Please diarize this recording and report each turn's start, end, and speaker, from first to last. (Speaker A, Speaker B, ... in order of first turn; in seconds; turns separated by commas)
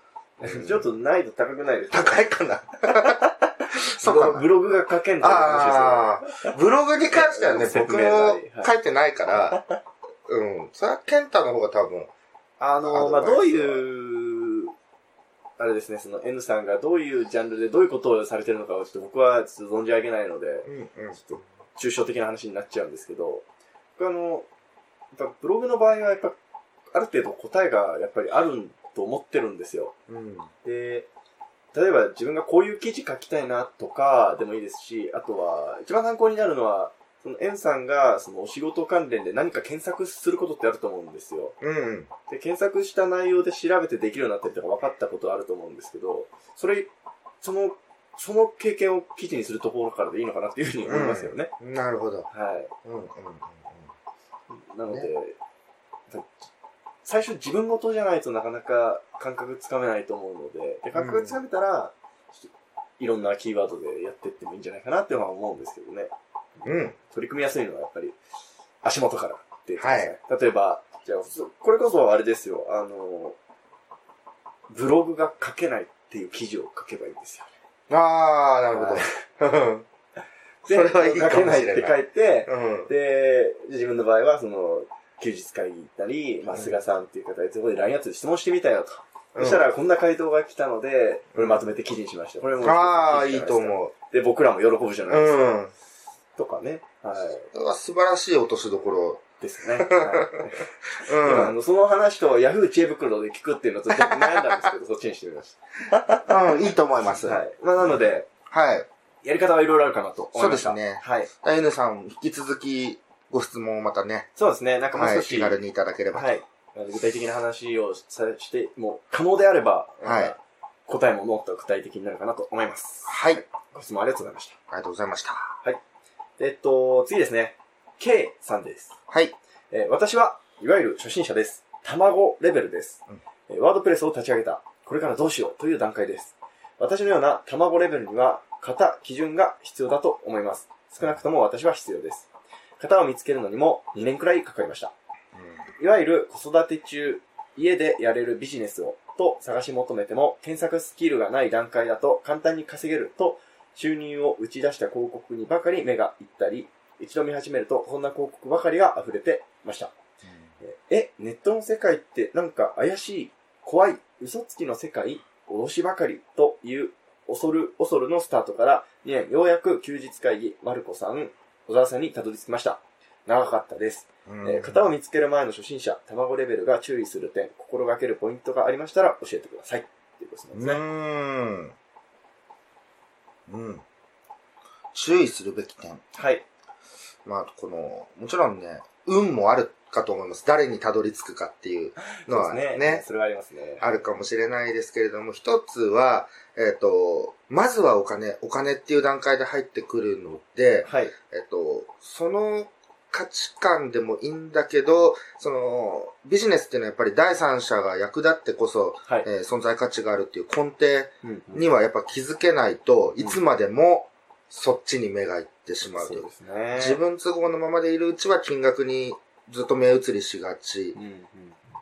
Speaker A: 0.4-2.2, Speaker B: 0.4-0.8, Speaker B: 1.9-3.2, Speaker A: 2.9-6.5, Speaker B: 3.7-4.5, Speaker B: 5.2-9.6, Speaker A: 7.1-8.7, Speaker A: 9.3-9.8, Speaker B: 10.3-12.1, Speaker A: 12.6-14.7, Speaker B: 12.8-13.8, Speaker A: 15.6-23.5, Speaker B: 20.6-21.3, Speaker A: 24.0-24.5, Speaker A: 25.1-26.4, Speaker A: 26.9-29.9, Speaker B: 30.1-30.5, Speaker A: 30.6-31.1, Speaker A: 31.7-41.5, Speaker B: 41.6-42.1, Speaker A: 42.3-46.9, Speaker A: 47.4-51.5, Speaker B: 50.9-52.3, Speaker A: 52.3-52.7, Speaker B: 52.8-53.9, Speaker A: 54.5-55.4, Speaker A: 56.1-56.5, Speaker A: 57.0-66.1, Speaker B: 61.0-61.4, Speaker B: 66.6-67.0, Speaker A: 67.0-68.2, Speaker A: 68.8-73.4, Speaker B: 69.8-70.1, Speaker A: 74.7-77.5, Speaker B: 77.9-79.9, Speaker A: 78.7-79.1, Speaker A: 80.6-95.5, Speaker B: 80.6-82.9, Speaker B: 86.5-86.8, Speaker B: 89.3-89.7, Speaker B: 91.3-91.6, Speaker B: 92.6-93.9, Speaker B: 95.1-95.7, Speaker A: 96.4-97.5, Speaker B: 97.5-100.4, Speaker A: 99.4-106.6, Speaker B: 101.0-101.5, Speaker B: 103.9-104.7, Speaker B: 106.2-108.9, Speaker A: 107.2-108.3, Speaker A: 109.2-111.3, Speaker B: 110.3-114.3, Speaker A: 114.4-115.6, Speaker B: 114.9-116.3, Speaker A: 116.1-124.6, Speaker B: 120.0-120.3, Speaker B: 123.1-123.4, Speaker B: 124.7-125.6, Speaker A: 126.4-128.9, Speaker B: 129.1-129.3, Speaker A: 129.7-144.9, Speaker B: 145.3-145.6, Speaker A: 145.8-159.9, Speaker B: 160.2-160.5, Speaker A: 160.6-180.8, Speaker B: 174.2-174.8, Speaker B: 180.5-181.8, Speaker B: 183.5-183.8, Speaker B: 184.9-186.0, Speaker A: 186.1-186.4, Speaker B: 187.2-193.0, Speaker A: 192.0-193.9, Speaker B: 193.8-221.0, Speaker A: 200.8-201.1, Speaker A: 211.2-211.7, Speaker A: 215.9-217.0, Speaker A: 220.9-221.6